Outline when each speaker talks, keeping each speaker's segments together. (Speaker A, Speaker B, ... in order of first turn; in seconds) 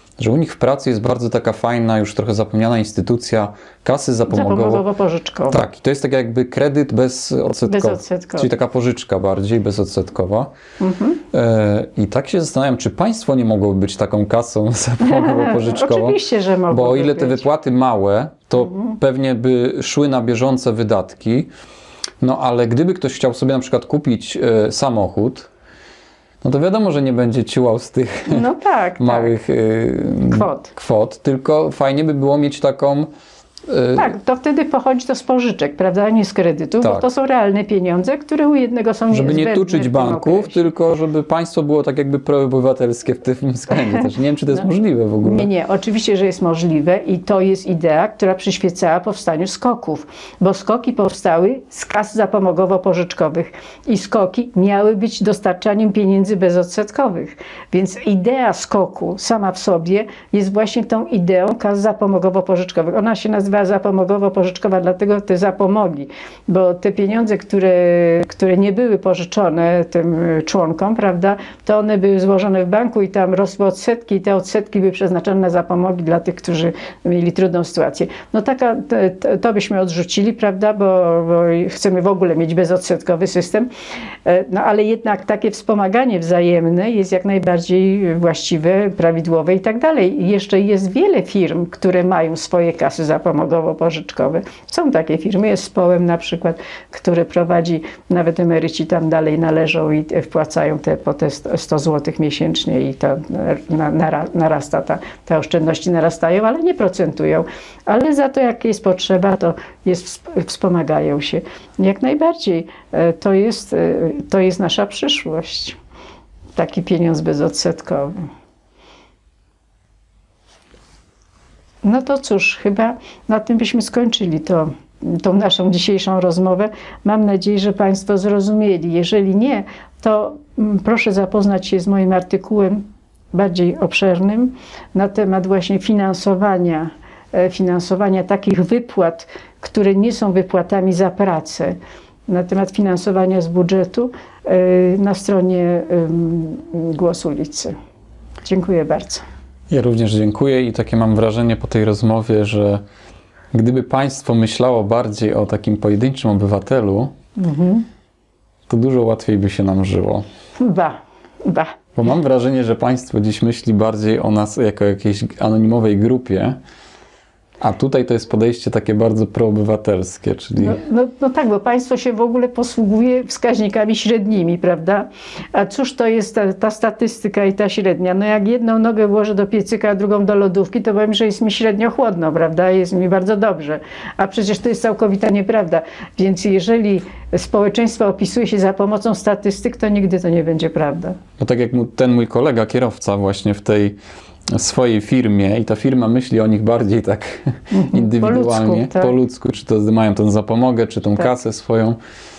Speaker A: 0.2-4.8, 5.5-10.5, 11.3-21.5, 22.2-25.5, 26.4-28.4, 29.0-33.1, 33.7-34.1, 39.1-45.5, 149.7-152.8, 153.5-157.1, 158.7-160.2, 161.9-166.6, 167.6-170.8, 191.4-194.0, 194.5-202.0
Speaker B: 4.3-5.6, 7.7-8.5, 10.8-11.2, 15.0-17.4, 18.6-19.0, 28.3-29.4, 30.3-30.7, 34.0-40.6, 45.2-83.7, 84.2-115.8, 116.5-118.2, 121.8-147.7, 148.4-149.2, 157.4-157.9, 160.6-161.8, 170.6-191.2, 197.7-199.1